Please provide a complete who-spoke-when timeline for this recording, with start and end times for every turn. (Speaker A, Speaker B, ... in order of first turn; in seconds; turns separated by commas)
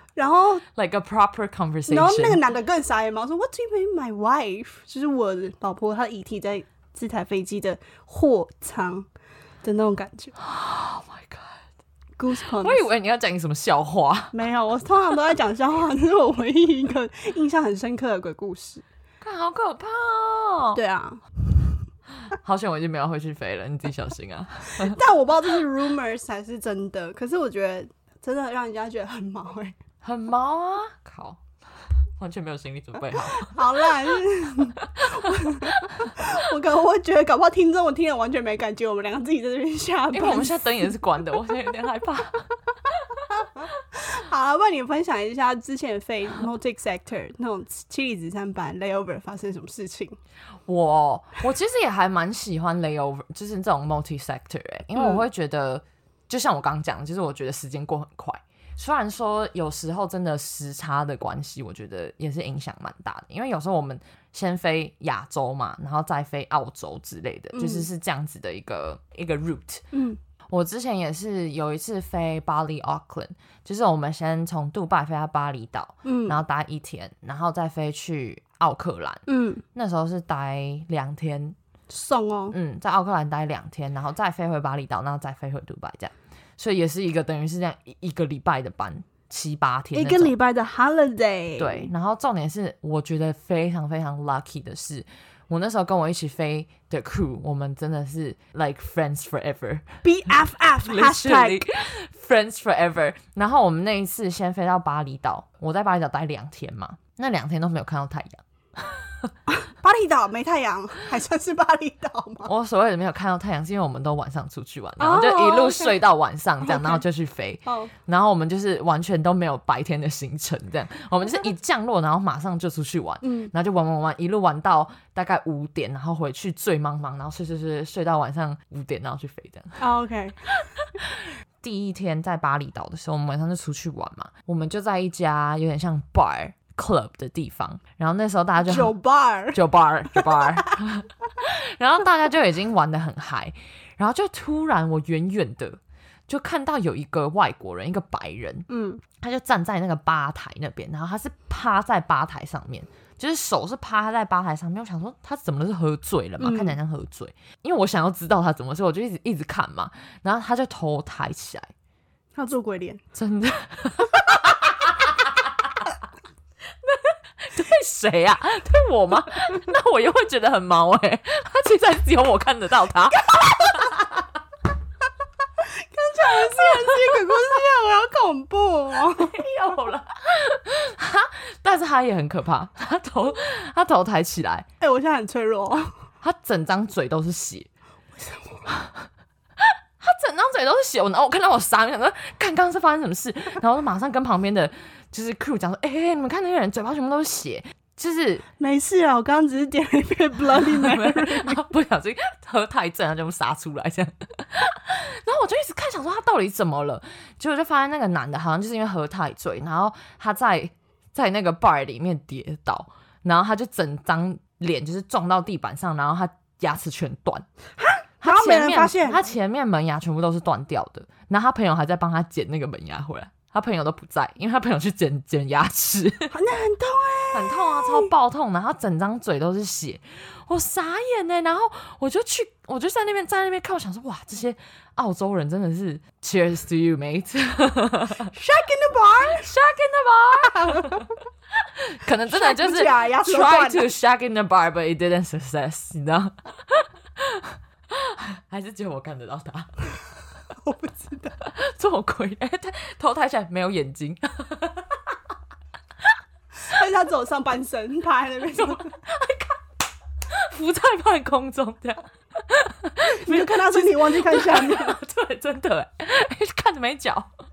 Speaker A: 0.2-0.7, Speaker B: 0.8-2.4, Speaker A: 1.9-9.1, Speaker A: 9.6-10.4, Speaker B: 10.4-11.7, Speaker A: 12.2-12.9, Speaker B: 12.4-14.3, Speaker A: 14.3-18.8, Speaker B: 19.2-20.8, Speaker A: 20.8-21.2, Speaker B: 22.3-25.0, Speaker A: 24.7-29.8, Speaker B: 30.0-31.4, Speaker B: 32.2-36.3, Speaker A: 33.2-40.9, Speaker B: 40.1-42.4, Speaker A: 43.3-50.2, Speaker B: 50.7-69.8, Speaker A: 55.0-55.2, Speaker A: 67.5-67.9, Speaker A: 69.9-70.2, Speaker B: 70.5-81.6, Speaker A: 76.0-76.4, Speaker A: 79.3-79.6, Speaker A: 81.9-82.6, Speaker B: 82.5-90.3, Speaker A: 89.9-91.9, Speaker B: 91.6-99.9, Speaker A: 100.0-101.6, Speaker B: 100.8-109.3, Speaker A: 109.5-112.5, Speaker B: 112.5-129.8, Speaker A: 115.0-116.0, Speaker A: 116.6-117.0, Speaker A: 117.7-117.9, Speaker A: 123.2-123.5, Speaker A: 129.8-130.6, Speaker B: 131.0-138.9, Speaker A: 138.6-140.7, Speaker B: 139.5-148.7, Speaker A: 148.7-149.0, Speaker B: 149.2-161.7, Speaker A: 156.4-156.8, Speaker A: 162.3-163.0, Speaker B: 163.2-165.5, Speaker B: 167.4-174.2, Speaker A: 173.3-174.0, Speaker A: 175.6-179.4, Speaker B: 176.3-177.3, Speaker B: 179.0-184.7, Speaker A: 184.8-185.9, Speaker B: 186.2-187.7, Speaker A: 188.2-188.7, Speaker B: 188.7-189.0, Speaker B: 189.6-198.4, Speaker A: 198.6-201.6, Speaker B: 200.5-217.5, Speaker A: 217.8-219.2, Speaker B: 218.2-226.3, Speaker A: 226.3-228.1, Speaker B: 227.3-238.3, Speaker A: 238.3-239.5, Speaker B: 239.3-241.1, Speaker A: 240.4-241.1, Speaker B: 241.7-249.7, Speaker A: 242.3-243.9, Speaker A: 250.6-251.4, Speaker B: 251.4-255.2, Speaker A: 256.7-258.9, Speaker B: 258.6-259.6, Speaker B: 260.3-267.3, Speaker A: 263.1-265.0